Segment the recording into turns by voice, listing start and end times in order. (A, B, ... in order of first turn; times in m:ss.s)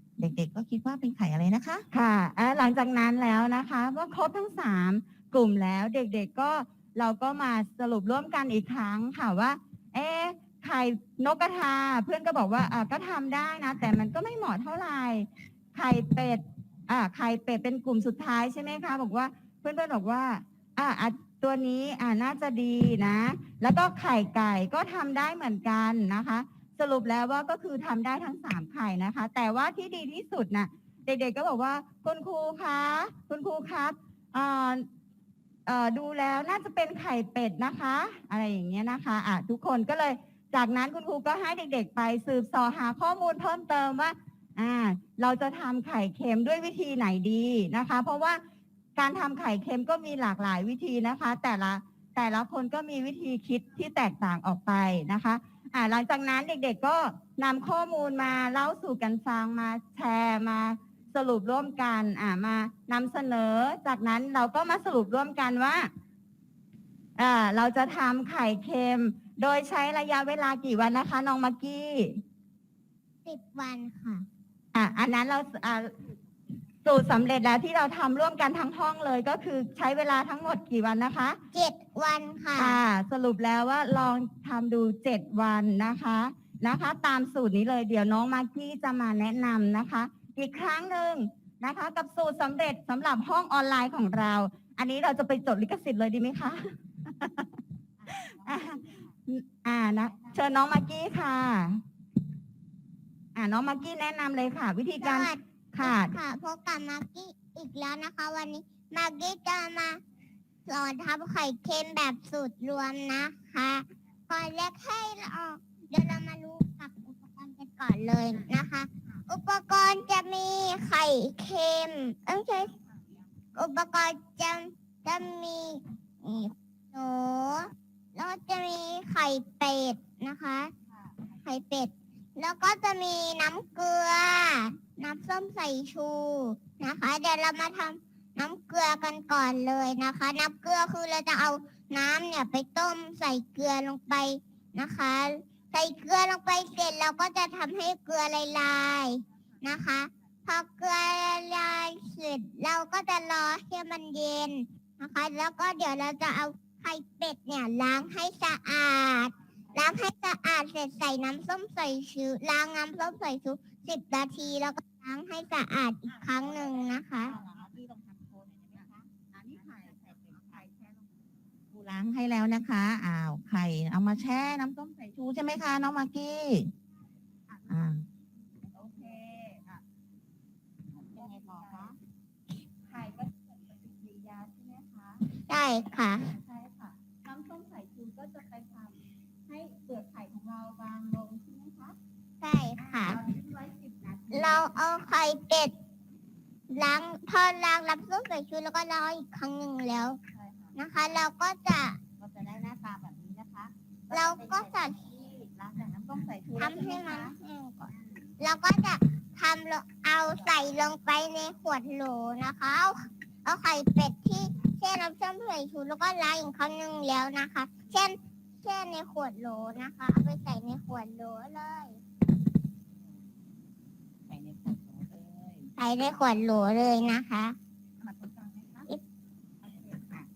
0:00.2-0:01.8 A
0:01.9-0:34.8 B
0:35.6-0:48.4 B
0:49.0-1:05.9 B
1:07.2-1:12.2 B
1:13.2-1:14.2 C
1:14.7-1:15.9 B
1:16.8-1:21.4 B
1:21.5-1:22.8 C
1:22.6-1:37.5 B
1:38.1-1:41.8 B
1:43.3-1:46.2 B
1:45.0-1:50.0 C
1:50.6-2:02.7 C
2:03.5-2:10.7 C
2:11.4-2:47.3 C
2:46.1-2:51.1 B
2:47.3-2:49.0 A
2:49.6-2:50.2 A
2:51.7-2:56.7 A
2:57.7-2:58.0 A
2:58.7-2:59.8 B
3:01.0-3:02.0 B
3:01.0-3:01.9 A
3:02.9-3:05.2 B
3:05.4-3:06.3 C
3:06.2-3:12.0 B
3:12.4-3:13.2 C
3:12.8-3:14.6 B
3:14.3-3:15.7 C
3:16.7-3:20.2 C
3:20.4-3:20.7 B
3:20.7-3:22.0 C
3:22.2-3:27.3 A
3:24.1-3:25.0 C
3:26.6-3:42.0 C
3:26.7-3:27.3 B
3:44.3-3:45.7 A
3:45.8-3:47.6 C
3:48.0-3:48.9 B
3:49.6-3:50.2 B